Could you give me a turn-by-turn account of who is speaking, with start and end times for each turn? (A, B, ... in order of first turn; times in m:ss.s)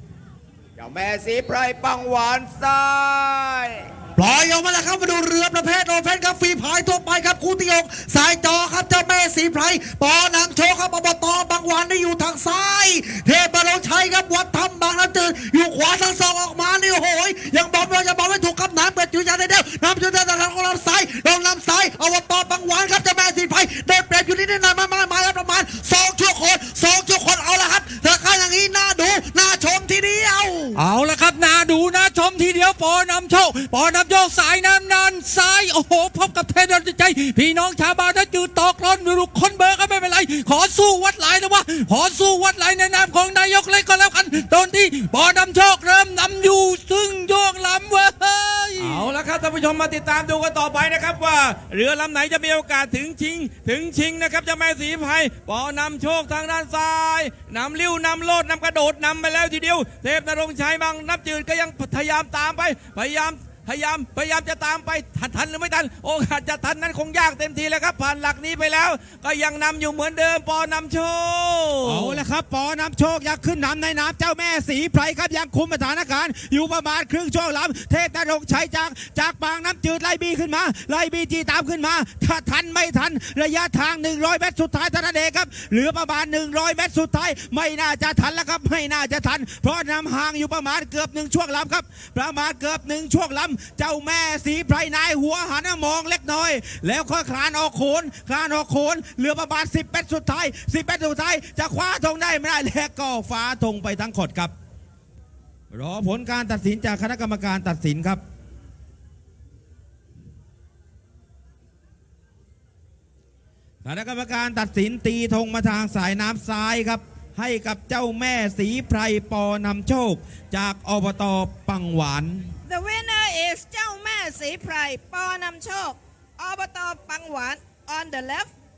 0:00.8-0:03.9 A
0:04.2-0:30.3 B
0:30.7-0:49.1 C
0:48.8-1:12.2 D
1:11.8-1:44.5 E
1:45.7-1:48.2 E
1:53.8-2:02.5 E
2:02.7-2:08.5 F